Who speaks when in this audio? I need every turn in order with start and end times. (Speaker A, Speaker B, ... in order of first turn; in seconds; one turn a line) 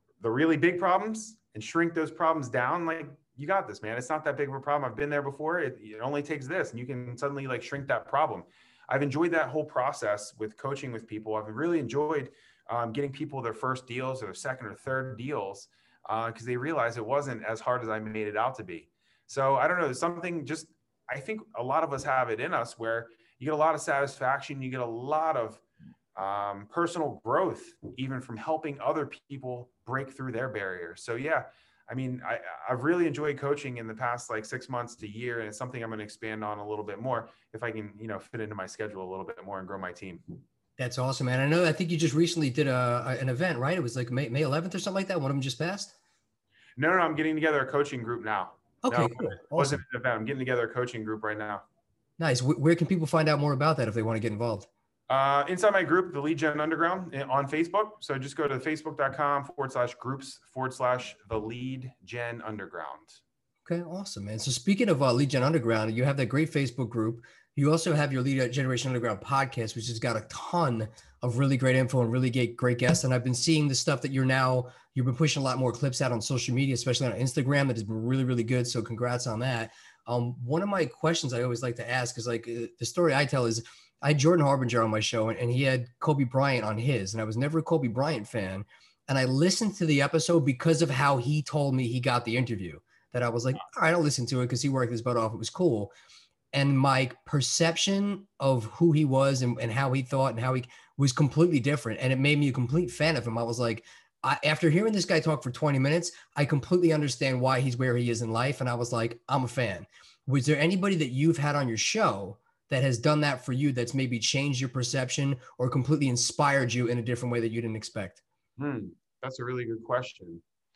Speaker A: 0.2-25.6
Speaker A: 26.1-40.2
Speaker B: 40.8-45.9
Speaker A: 46.8-51.6
Speaker B: 48.8-49.8
Speaker B: 52.2-54.7
Speaker A: 55.1-63.2
Speaker B: 63.6-95.9
Speaker B: 96.5-118.2
Speaker A: 118.6-120.4